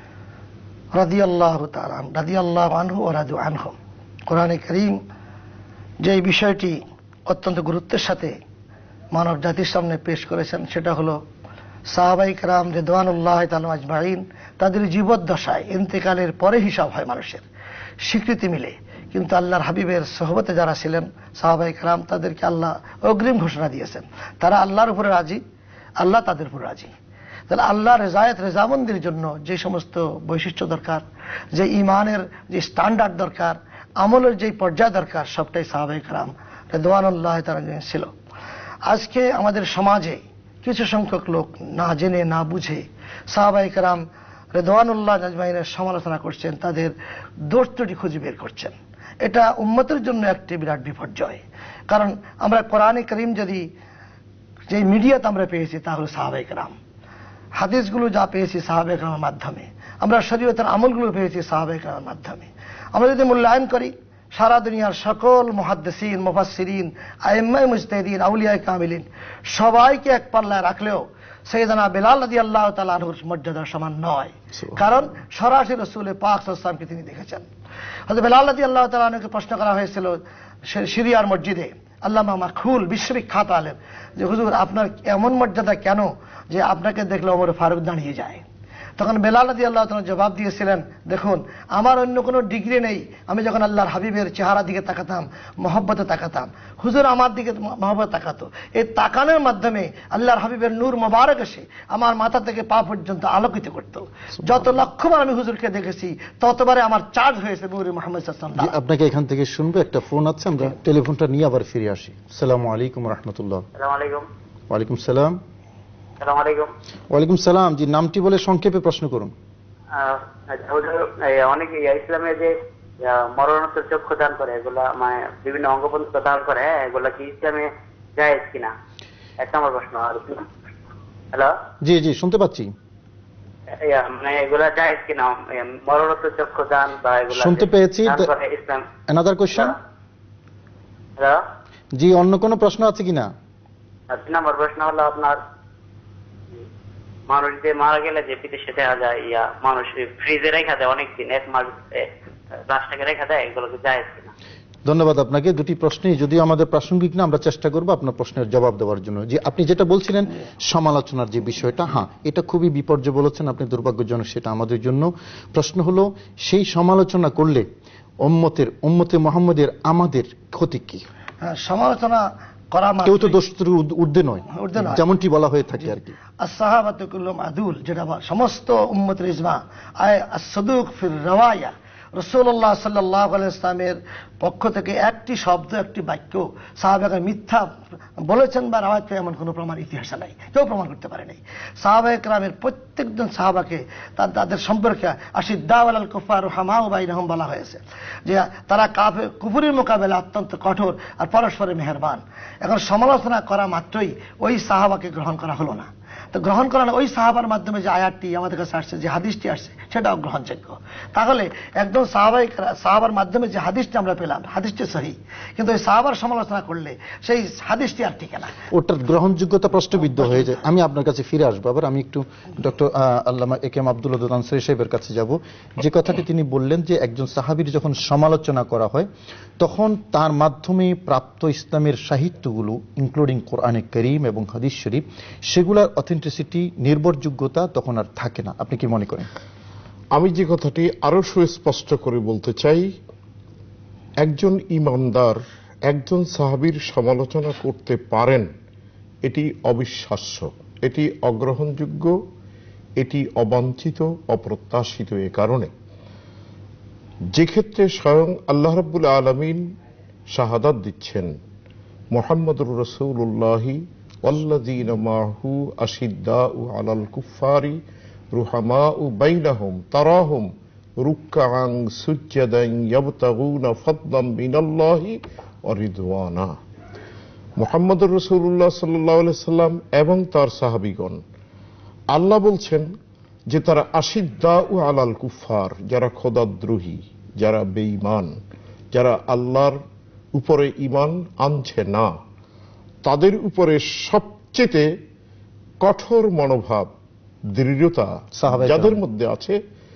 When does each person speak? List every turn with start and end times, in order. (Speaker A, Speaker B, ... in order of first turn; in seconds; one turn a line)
Speaker A: 0.9-3.8
Speaker A: 4.3-5.0
Speaker A: 6.0-8.3
Speaker A: 9.1-11.2
Speaker A: 11.9-17.4
Speaker A: 18.0-25.4
Speaker A: 26.0-26.9
Speaker A: 27.5-38.1
Speaker A: 38.9-46.9
Speaker A: 47.5-53.6
Speaker A: 54.7-56.8
Speaker A: 57.6-77.5
Speaker A: 78.1-88.4
Speaker A: 89.0-108.8
Speaker B: 108.6-113.7
Speaker C: 113.8-114.3
Speaker B: 114.7-115.4
Speaker C: 116.2-116.7
Speaker B: 117.1-119.3
Speaker C: 119.9-128.7
Speaker C: 129.4-130.5
Speaker B: 131.8-132.7
Speaker C: 133.8-138.8
Speaker B: 137.3-138.3
Speaker B: 139.1-139.7
Speaker B: 141.9-143.3
Speaker C: 144.1-145.4
Speaker C: 147.3-154.3
Speaker B: 154.9-167.7
Speaker B: 168.2-171.1
Speaker A: 171.4-173.4
Speaker B: 173.1-176.2
Speaker A: 174.5-175.0
Speaker A: 176.4-187.7
Speaker A: 188.2-218.5
Speaker B: 218.7-229.1
Speaker B: 229.6-239.3
Speaker D: 240.2-242.9
Speaker D: 244.2-248.5
Speaker D: 249.2-252.2
Speaker D: 253.0-255.7
Speaker D: 257.3-259.6
Speaker D: 260.3-261.3
Speaker D: 262.1-267.8
Speaker D: 268.3-270.5
Speaker D: 271.0-276.6
Speaker D: 277.6-281.2
Speaker D: 282.1-282.9
Speaker D: 283.5-288.4
Speaker D: 288.9-289.8
Speaker D: 290.4-292.1
Speaker D: 293.1-294.9
Speaker D: 295.8-296.9
Speaker D: 297.6-299.6
Speaker B: 298.4-299.0